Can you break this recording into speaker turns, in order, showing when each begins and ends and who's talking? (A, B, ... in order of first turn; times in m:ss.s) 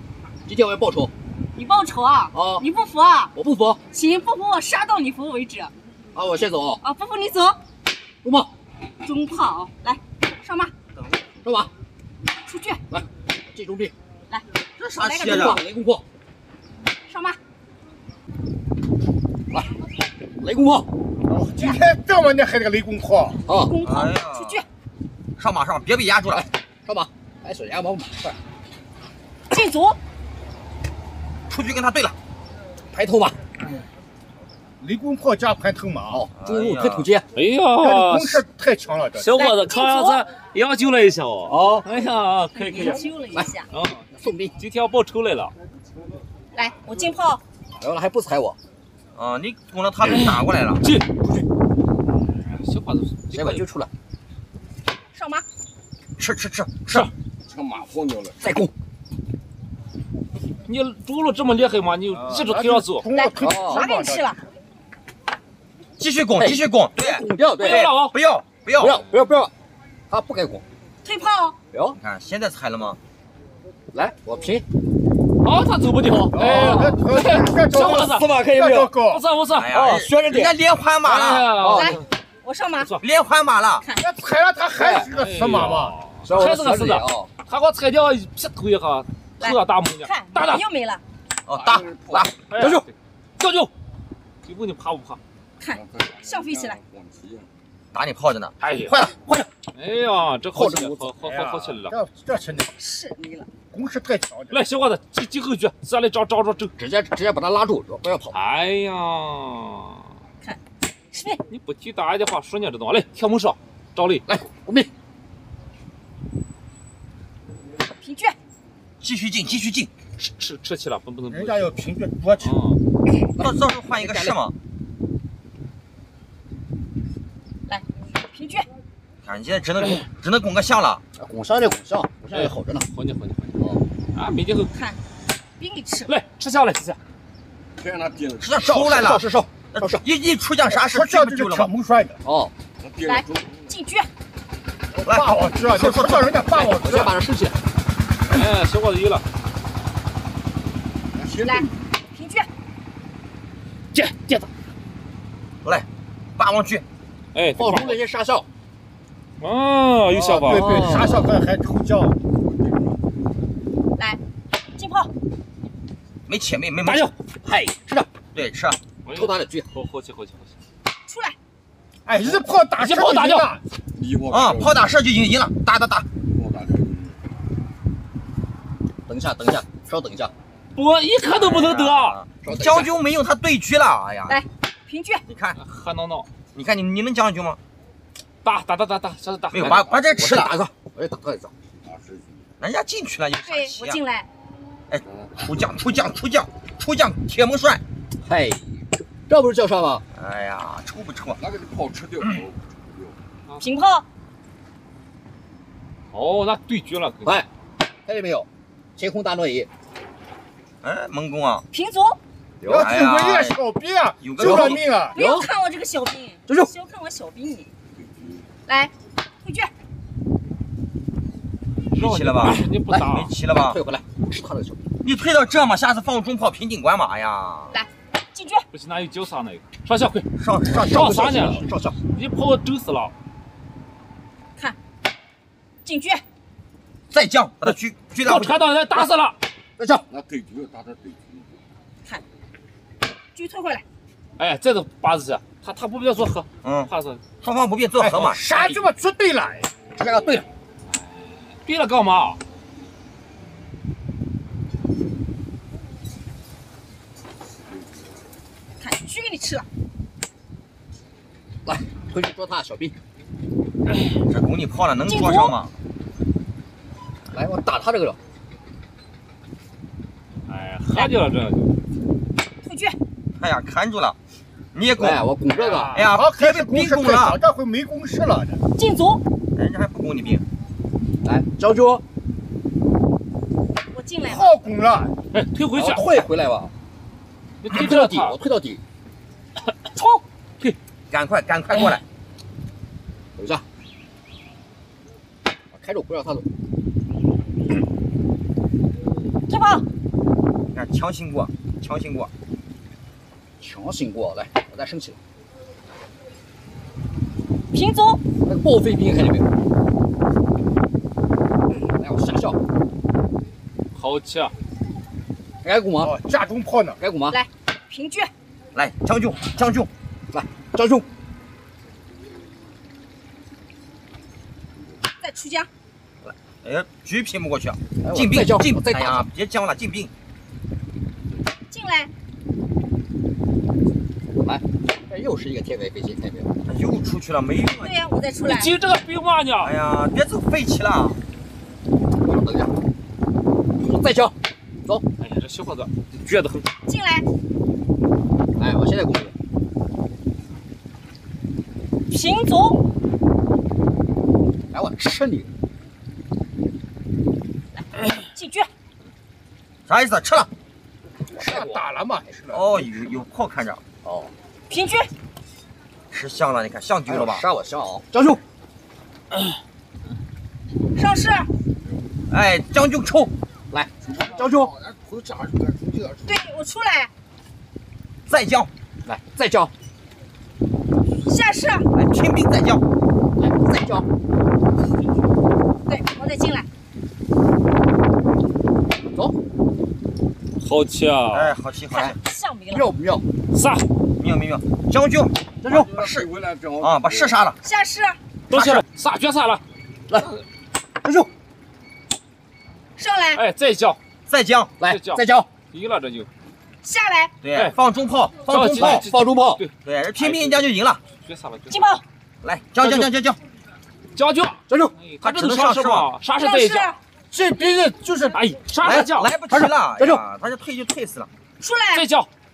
0:00.4-0:01.1 A
0:01.6-0:03.3 B
0:02.3-0:02.6 A
0:03.3-0:03.8 A
0:03.9-0:05.7 B
0:06.1-0:06.8 A
0:06.8-0:07.6 B
0:08.2-0:08.5 A
0:09.0-0:10.7 B
0:11.4-0:11.7 A
0:12.4-0:12.8 B
0:12.9-0:13.9 A
0:14.8-0:15.6 C
0:15.0-0:15.6 B
0:15.2-0:16.0 A
0:17.1-0:17.4 B
0:20.4-0:20.9 A
0:21.3-0:23.4 D
0:23.4-0:23.8 A
0:23.5-0:24.6 B
0:23.8-0:24.6 C
0:25.4-0:26.4 C
0:26.3-0:28.4 A
0:29.5-0:30.0 B
0:31.5-0:32.2 C
0:32.9-0:33.4 A
0:34.8-0:36.2 D
0:36.1-0:37.2 A
0:36.4-0:37.1 C
0:37.3-0:38.4 E
0:37.8-0:39.3 D
0:39.1-0:43.0 E
0:39.4-0:40.2 B
0:41.5-0:41.9 A
0:42.5-0:43.7 B
0:43.7-0:44.1 E
0:44.1-0:44.5 A
0:44.6-0:45.5 E
0:46.5-0:47.4 B
0:47.8-0:48.6 A
0:49.2-0:50.8 C
0:50.0-0:51.0 E
0:52.4-0:53.6 E
0:53.3-0:53.9 A
0:55.1-0:55.4 B
0:56.2-0:57.1 C
0:58.4-0:58.7 A
1:00.6-1:03.1 E
1:02.5-1:04.4 D
1:03.1-1:04.4 B
1:03.4-1:03.9 A
1:06.0-1:09.0 C
1:06.4-1:07.9 A
1:07.6-1:08.1 E
1:08.8-1:09.5 A
1:10.1-1:10.6 A
1:11.0-1:11.6 B
1:12.0-1:13.0 C
1:13.9-1:14.6 A
1:15.4-1:18.3 E
1:16.3-1:19.2 D
1:16.4-1:17.0 A
1:17.9-1:18.9 A
1:19.0-1:19.7 E
1:19.5-1:21.5 C
1:19.7-1:20.5 A
1:21.0-1:22.0 E
1:21.6-1:22.0 A
1:21.7-1:23.0 B
1:23.0-1:23.8 C
1:23.8-1:24.2 B
1:24.0-1:25.9 D
1:24.8-1:25.1 A
1:25.1-1:30.6 E
1:26.2-1:27.3 A
1:29.4-1:31.0 B
1:31.4-1:32.3 C
1:32.5-1:33.7 E
1:32.6-1:32.8 A
1:34.4-1:35.2 E
1:35.6-1:36.8 B
1:37.9-1:39.1 C
1:38.6-1:39.0 E
1:39.7-1:42.0 E
1:40.5-1:41.1 A
1:41.5-1:42.7 D
1:42.8-1:43.5 B
1:43.7-1:44.6 D
1:44.5-1:46.7 E
1:46.8-1:48.3 A
1:48.3-1:50.1 E
1:51.1-1:51.4 B
1:51.5-1:54.2 E
1:54.3-1:54.9 A
1:58.0-1:58.4 B
1:59.0-1:59.9 C
2:00.2-2:01.7 E
2:01.3-2:02.5 D
2:02.4-2:02.8 E
2:03.4-2:04.3 A
2:03.4-2:04.5 C
2:07.7-2:08.7 B
2:09.2-2:11.0 C
2:11.2-2:12.9 A
2:12.3-2:13.6 E
2:14.1-2:14.7 E
2:14.7-2:15.0 B
2:15.6-2:16.1 B
2:16.1-2:17.0 E
2:18.4-2:21.7 C
2:18.6-2:20.0 A
2:20.9-2:22.2 D
2:22.2-2:22.5 A
2:23.0-2:24.1 B
2:24.9-2:27.1 D
2:25.0-2:26.4 C
2:26.5-2:27.6 A
2:28.3-2:29.2 E
2:31.2-2:32.5 B
2:33.9-2:34.5 E
2:36.4-2:36.8 C
2:37.3-2:38.0 E
2:37.6-2:38.4 A
2:39.4-2:40.8 E
2:40.3-2:41.4 A
2:40.4-2:42.1 D
2:44.8-2:45.1 B
2:46.3-2:47.1 C
2:46.9-2:47.1 E
2:47.4-2:48.1 A
2:48.3-2:48.8 C
2:49.0-2:50.5 E
2:49.1-2:49.7 A
2:51.1-2:51.4 B
2:52.0-2:53.6 D
2:52.8-2:53.5 E
2:54.1-2:56.1 C
2:59.1-3:00.3 A
3:00.7-3:02.1 E
3:01.2-3:04.4 C
3:02.4-3:02.9 A
3:04.3-3:05.2 B
3:05.3-3:05.6 C
3:05.6-3:06.3 E
3:06.5-3:07.6 C
3:08.4-3:09.9 E
3:09.5-3:10.5 C
3:10.2-3:11.5 A
3:12.6-3:14.0 C
3:13.4-3:14.3 B
3:14.9-3:17.8 C
3:18.2-3:20.0 A
3:20.1-3:21.5 C
3:22.2-3:22.5 C
3:23.6-3:24.0 B
3:26.1-3:27.4 E
3:28.0-3:29.7 A
3:30.8-3:31.6 C
3:31.7-3:32.2 B
3:32.6-3:32.9 A
3:32.7-3:35.2 D
3:32.8-3:33.6 C
3:34.2-3:34.8 C
3:34.4-3:35.4 A
3:35.1-3:37.7 B
3:38.6-3:39.7 B
3:41.9-3:43.3 E
3:42.0-3:43.8 C
3:42.9-3:44.8 A
3:45.0-3:47.7 C
3:47.7-3:48.6 B
3:48.7-3:50.2 E
3:50.4-3:50.9 C
3:50.7-3:52.0 A
3:50.9-3:53.1 E
3:55.8-3:56.2 B
3:57.1-3:58.6 C
3:58.2-3:59.4 E
3:59.8-4:00.0 A
4:03.3-4:03.8 B
4:04.4-4:07.2 E
4:06.6-4:08.4 C
4:08.0-4:09.7 D
4:10.0-4:10.5 A
4:11.5-4:12.4 E
4:18.8-4:19.6 B
4:21.6-4:22.9 A
4:24.3-4:25.7 C
4:25.1-4:25.5 B
4:27.3-4:28.2 A
4:30.5-4:31.7 E
4:32.6-4:33.0 B
4:33.4-4:34.2 C
4:34.7-4:35.2 C
4:35.0-4:36.0 A
4:35.6-4:38.6 D
4:35.9-4:37.4 C
4:38.8-4:39.2 B
4:39.6-4:40.4 C
4:41.2-4:42.0 A
4:43.9-4:44.5 B
4:44.3-4:45.1 D
4:45.3-4:46.0 E
4:45.7-4:46.7 A
4:47.6-4:48.4 E
4:47.7-4:48.8 A
4:49.9-4:50.2 B
4:51.1-4:52.0 C
4:53.4-4:53.6 A
4:55.7-4:56.4 A
4:59.5-4:59.8 B
5:00.7-5:02.3 C
5:03.6-5:05.2 A
5:07.7-5:08.2 B
5:08.4-5:09.5 A
5:11.7-5:12.6 A
5:13.9-5:14.5 E
5:15.6-5:16.1 A
5:16.0-5:17.0 D
5:17.0-5:17.4 A
5:17.3-5:18.3 B
5:18.7-5:19.9 C
5:20.3-5:21.0 A
5:25.2-5:25.7 B
5:26.2-5:30.1 C
5:28.0-5:29.2 A
5:31.7-5:32.1 B
5:34.4-5:36.5 A
5:36.6-5:38.0 C
5:37.7-5:38.7 B
5:38.4-5:39.7 E
5:39.6-5:41.2 C
5:42.2-5:42.7 A
5:43.8-5:45.0 A
5:45.2-5:46.7 E
5:46.9-5:47.3 B
5:48.6-5:49.3 A
5:52.1-5:52.8 B
5:54.7-5:55.5 A
5:58.1-5:58.7 B
5:59.9-6:00.5 C
6:01.4-6:02.6 D
6:01.4-6:01.8 E
6:02.5-6:03.8 C
6:04.0-6:04.3 A
6:04.7-6:05.1 B
6:06.1-6:07.4 C
6:07.1-6:08.4 A
6:11.0-6:11.5 B
6:12.3-6:13.3 C
6:13.7-6:14.8 A
6:16.2-6:17.1 B
6:18.3-6:18.7 C
6:19.0-6:19.7 A
6:21.2-6:21.9 B
6:21.9-6:22.8 C
6:23.4-6:24.0 A
6:25.9-6:26.6 B
6:30.6-6:31.5 E
6:31.3-6:32.2 C
6:32.0-6:32.9 B
6:32.7-6:33.2 A
6:33.5-6:33.8 E
6:34.2-6:37.6 C
6:35.6-6:36.0 A
6:37.6-6:38.2 B
6:38.5-6:39.6 E
6:38.5-6:38.8 C
6:40.1-6:40.4 A
6:41.0-6:41.3 A
6:43.0-6:43.4 B
6:43.4-6:44.0 E
6:44.3-6:44.7 C
6:44.8-6:45.5 A
6:44.8-6:46.3 E
6:46.8-6:47.3 B
6:47.4-6:49.1 C
6:48.5-6:50.6 E
6:48.8-6:49.6 A
6:49.8-6:51.0 C
6:51.2-6:51.8 E
6:51.7-6:52.0 B
6:52.4-6:53.4 C
6:54.1-6:56.9 E
6:55.2-6:56.1 C
6:56.3-6:57.0 B
6:57.3-6:58.4 D
6:58.3-6:59.3 E
6:58.8-7:01.3 C
6:59.5-7:00.2 A
7:01.6-7:02.0 B
7:01.9-7:02.3 E